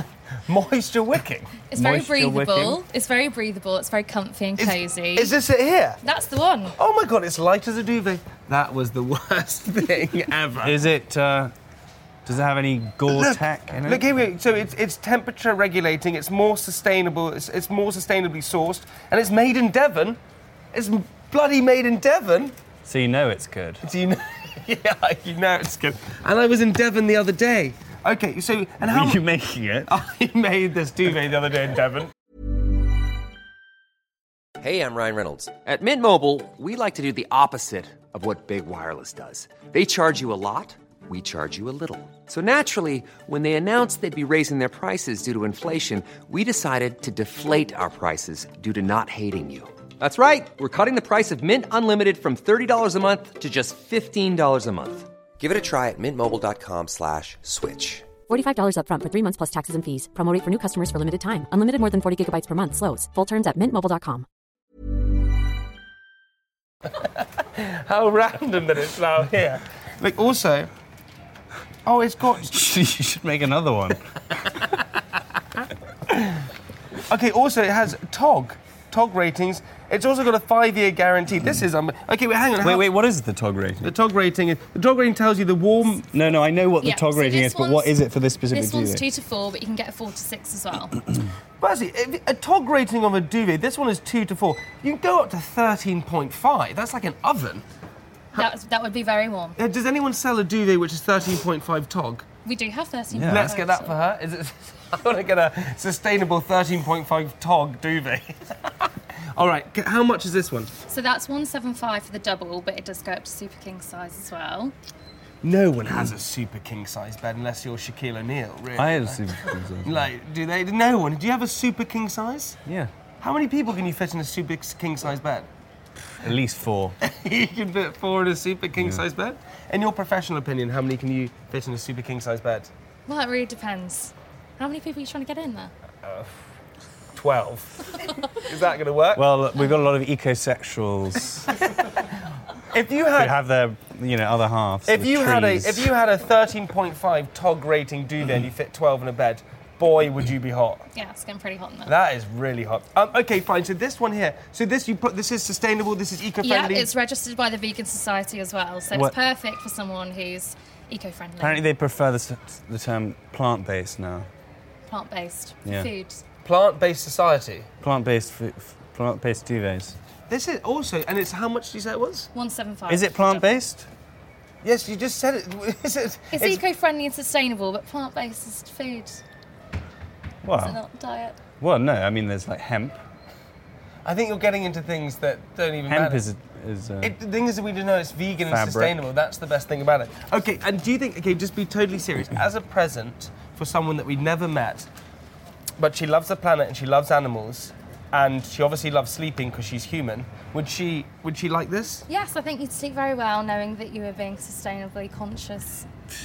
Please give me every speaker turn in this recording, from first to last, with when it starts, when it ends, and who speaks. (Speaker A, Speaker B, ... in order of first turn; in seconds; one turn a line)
Speaker A: 0.5-1.5
Speaker B: 1.7-5.3
Speaker C: 1.8-2.8
Speaker A: 4.6-6.0
Speaker B: 6.0-6.8
Speaker A: 6.8-10.8
Speaker C: 10.6-11.5
Speaker C: 12.3-14.1
Speaker A: 13.1-20.2
Speaker A: 20.7-22.6
Speaker C: 22.9-23.8
Speaker A: 23.8-29.2
Speaker C: 28.9-29.9
Speaker A: 29.9-32.1
Speaker D: 34.6-58.1
Speaker E: 58.3-64.3
Speaker A: 67.5-70.7
Speaker A: 71.9-72.7
Speaker C: 72.5-74.0
Speaker A: 76.1-76.4
Speaker A: 77.1-82.9
Speaker C: 82.6-83.9
Speaker A: 83.8-86.1
Speaker C: 86.1-89.1
Speaker B: 86.8-88.0
Speaker B: 88.5-91.0
Speaker A: 91.6-97.7
Speaker B: 98.3-99.6
Speaker A: 99.6-102.3
Speaker B: 102.5-104.0
Speaker C: 103.1-103.5
Speaker A: 103.2-110.7
Speaker B: 110.9-114.7
Speaker A: 115.4-122.6
Speaker C: 118.8-120.1
Speaker C: 122.7-122.9
Speaker A: 123.2-125.5
Speaker C: 126.2-127.0
Speaker A: 127.0-132.7
Speaker B: 133.1-135.7
Speaker A: 136.0-136.3
Speaker A: 137.2-139.3
Speaker C: 139.2-141.5
Speaker A: 142.7-143.4
Speaker C: 143.1-145.9
Speaker A: 144.9-150.8
Speaker B: 150.9-152.0
Speaker A: 151.9-156.9
Speaker B: 156.4-161.6
Speaker C: 158.9-159.2
Speaker C: 161.4-164.3
Speaker B: 164.9-166.2
Speaker C: 165.7-165.9
Speaker A: 166.4-167.7
Speaker C: 167.8-170.0
Speaker A: 170.3-172.3
Speaker B: 172.3-173.5
Speaker C: 172.9-173.9
Speaker A: 174.6-176.6
Speaker B: 176.3-179.2
Speaker C: 180.4-180.8
Speaker B: 180.6-181.4
Speaker C: 181.6-183.0
Speaker A: 184.1-186.2
Speaker C: 185.9-187.2
Speaker A: 187.0-194.9
Speaker C: 188.5-189.0
Speaker A: 195.8-202.1
Speaker B: 202.1-205.8